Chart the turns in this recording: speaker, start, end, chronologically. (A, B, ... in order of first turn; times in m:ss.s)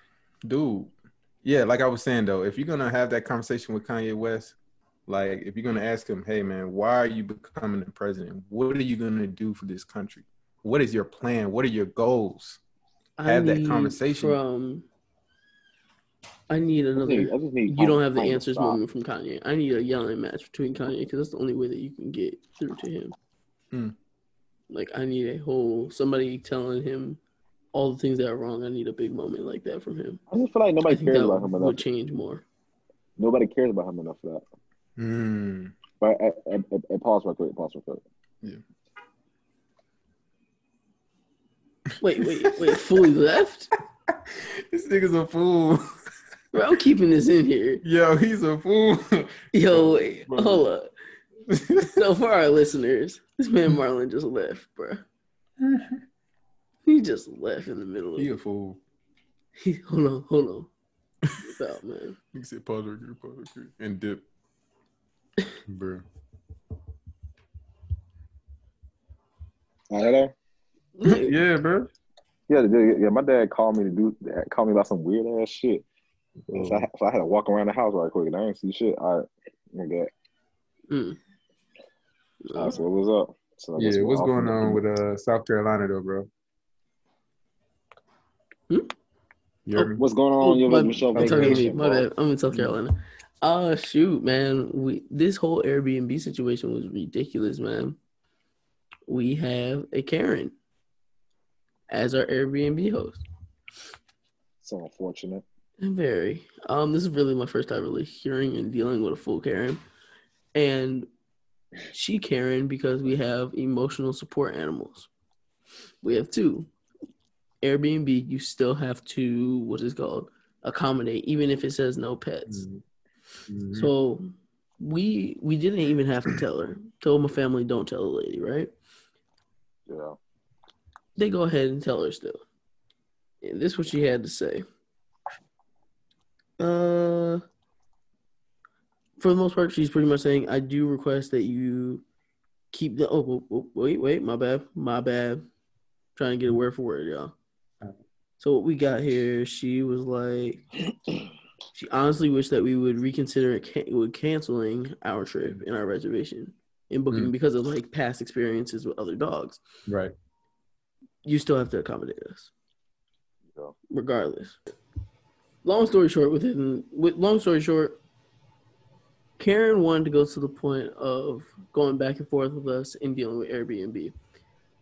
0:00.4-0:04.6 A
0:05.1-0:12.6 A
0:13.2-0:14.9 B
0:13.2-0:14.4 A
0:16.5-0:23.1 B
0:17.0-0:18.8 C
0:24.7-0:27.2 B
0:27.7-0:30.2 B
0:30.3-0:31.8 C
0:30.9-0:32.4 B
0:33.2-0:34.4 C
0:35.0-0:35.7 A
0:36.0-0:38.0 C
0:42.0-0:43.7 B
0:42.2-0:42.8 A
0:44.1-0:45.8 A
0:46.5-0:47.8 B
0:47.8-0:50.7 A
0:49.5-0:50.9 B
0:51.5-0:52.0 A
0:51.8-0:55.0 B
0:55.6-0:56.0 A
0:56.9-0:58.3 B
0:58.2-0:58.8 A
0:59.6-1:00.7 B
1:01.4-1:02.2 B
1:02.3-1:04.2 A
1:05.7-1:06.0 A
1:09.9-1:10.3 C
1:11.0-1:11.4 B
1:11.0-1:11.9 A
1:12.5-1:15.8 C
1:16.5-1:16.8 A
1:16.5-1:20.1 C
1:20.9-1:21.2 B
1:22.4-1:22.8 B
1:22.6-1:24.8 C
1:23.8-1:26.3 A
1:29.7-1:30.0 A
1:29.8-1:38.0 B
1:30.0-1:32.1 C
1:31.2-1:31.7 A
1:39.1-1:40.5 B
1:41.9-1:43.2 B
1:44.6-1:45.4 C
1:45.8-1:49.8 B
1:50.6-1:51.1 B
1:51.9-1:55.1 B
1:56.0-1:56.7 B
1:57.6-2:02.7 B
2:02.5-2:02.8 A
2:03.5-2:03.9 A
2:03.7-2:08.7 B
2:09.9-2:10.2 C
2:11.2-2:12.4 B
2:13.4-2:14.6 B
2:16.6-2:17.4 B
2:19.2-2:22.0 B
2:22.7-2:25.4 B
2:26.2-2:27.3 B
2:28.4-2:30.6 B
2:31.7-2:39.6 B
2:39.9-2:40.1 A
2:41.2-2:42.5 B
2:43.9-2:44.6 B
2:45.6-2:48.0 B
2:49.4-2:54.1 B